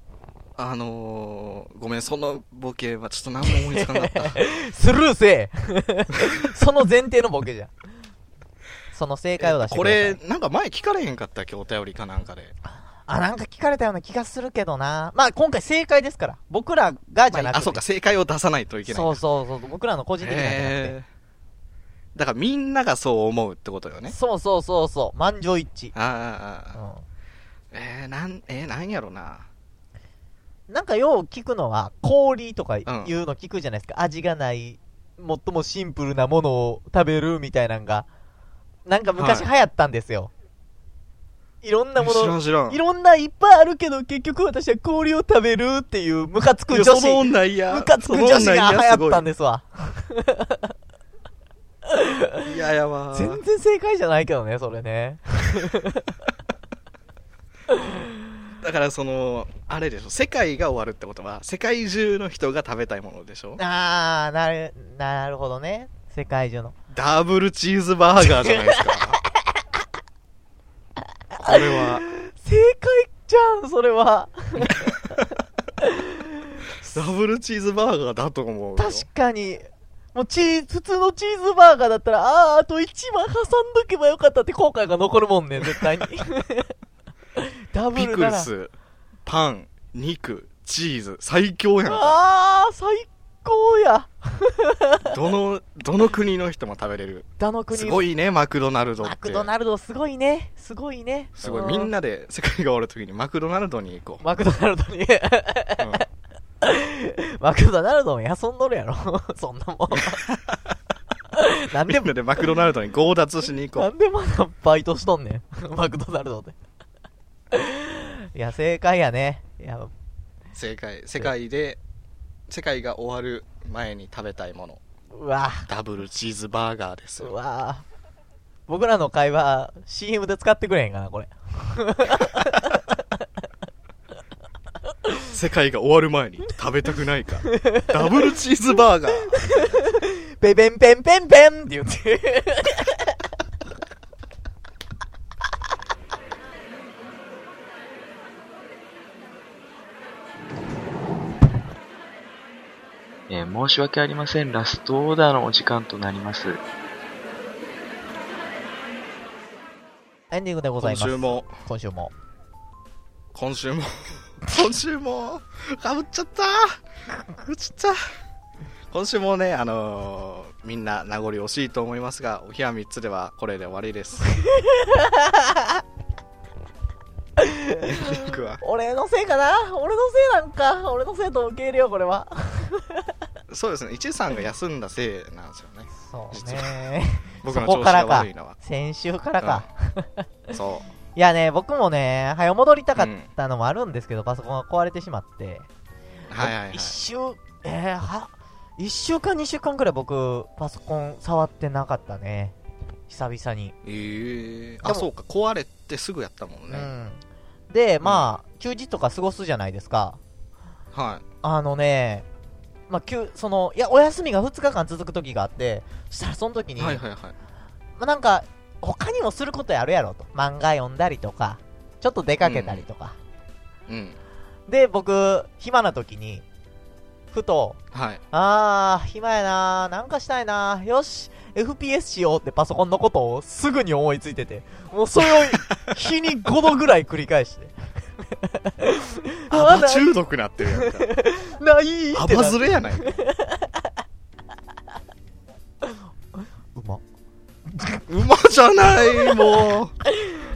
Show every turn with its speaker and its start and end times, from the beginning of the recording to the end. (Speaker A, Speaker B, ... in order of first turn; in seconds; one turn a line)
Speaker A: 0.6-4.4
Speaker B: 3.5-7.7
Speaker B: 8.9-10.2
Speaker A: 9.4-12.5
Speaker B: 13.1-17.8
Speaker A: 17.3-19.2
Speaker B: 18.9-20.9
Speaker A: 20.2-21.0
Speaker A: 22.1-24.1
Speaker B: 24.1-25.9
Speaker A: 25.9-26.8
Speaker B: 26.7-27.0
Speaker A: 27.7-29.5
Speaker B: 30.7-38.1
Speaker A: 32.9-33.1
Speaker B: 38.9-40.3
Speaker A: 39.2-39.5
Speaker B: 41.6-50.7
Speaker A: 42.0-42.8
Speaker A: 46.7-49.2
Speaker B: 51.9-52.5
Speaker A: 52.4-53.4
Speaker B: 53.1-56.1
Speaker B: 57.7-58.2
Speaker A: 58.6-63.6
Speaker B: 63.6-66.8
Speaker A: 66.9-69.2
Speaker B: 68.2-69.2
Speaker B: 71.3-75.2
Speaker A: 71.4-72.0
Speaker A: 74.6-74.9
Speaker B: 75.8-77.0
Speaker A: 76.9-79.0
Speaker B: 78.8-86.7
Speaker B: 87.4-88.5
Speaker A: 87.9-88.7
Speaker A: 89.2-92.2
Speaker B: 91.9-95.1
Speaker A: 95.1-99.5
Speaker B: 97.4-98.0
Speaker B: 99.0-101.9
Speaker A: 101.4-104.2
Speaker B: 104.2-106.0
Speaker A: 105.8-106.0
Speaker B: 106.6-110.2
Speaker A: 110.0-110.7
Speaker B: 111.3-112.1
Speaker A: 111.8-113.9
Speaker B: 113.7-116.6
Speaker B: 117.5-119.9
Speaker A: 120.5-121.8
Speaker A: 122.5-124.8
Speaker B: 125.1-125.7
Speaker A: 125.7-127.3
Speaker B: 127.2-127.8
Speaker B: 128.7-133.0
Speaker A: 135.3-139.7
Speaker B: 137.5-138.1
Speaker B: 139.2-143.2
Speaker C: 153.3-156.6
Speaker B: 160.3-162.1
Speaker A: 160.8-161.5
Speaker A: 163.3-168.0
Speaker A: 168.9-174.3
Speaker B: 174.2-175.8
Speaker B: 177.4-183.1
Speaker A: 177.8-178.6
Speaker A: 183.5-186.9
Speaker B: 185.9-190.2
Speaker A: 187.4-188.6
Speaker A: 189.4-189.7
Speaker A: 190.5-190.9
Speaker B: 191.1-195.7
Speaker A: 192.9-193.3
Speaker A: 196.3-197.0
Speaker B: 196.4-202.5
Speaker B: 203.1-203.7
Speaker A: 203.8-206.9
Speaker B: 206.7-210.2
Speaker A: 208.0-208.4
Speaker A: 210.9-211.2
Speaker B: 211.4-212.2
Speaker B: 212.9-217.0
Speaker A: 216.8-217.3
Speaker B: 218.0-223.2
Speaker A: 222.4-222.8
Speaker A: 223.9-224.2
Speaker B: 224.7-226.4
Speaker B: 227.3-227.8
Speaker A: 227.9-228.2
Speaker B: 228.3-237.7
Speaker A: 235.3-235.9
Speaker B: 238.3-240.2
Speaker A: 239.5-241.1
Speaker B: 240.7-243.9
Speaker A: 242.1-243.2
Speaker B: 246.7-247.0
Speaker A: 248.1-249.9
Speaker B: 248.9-249.5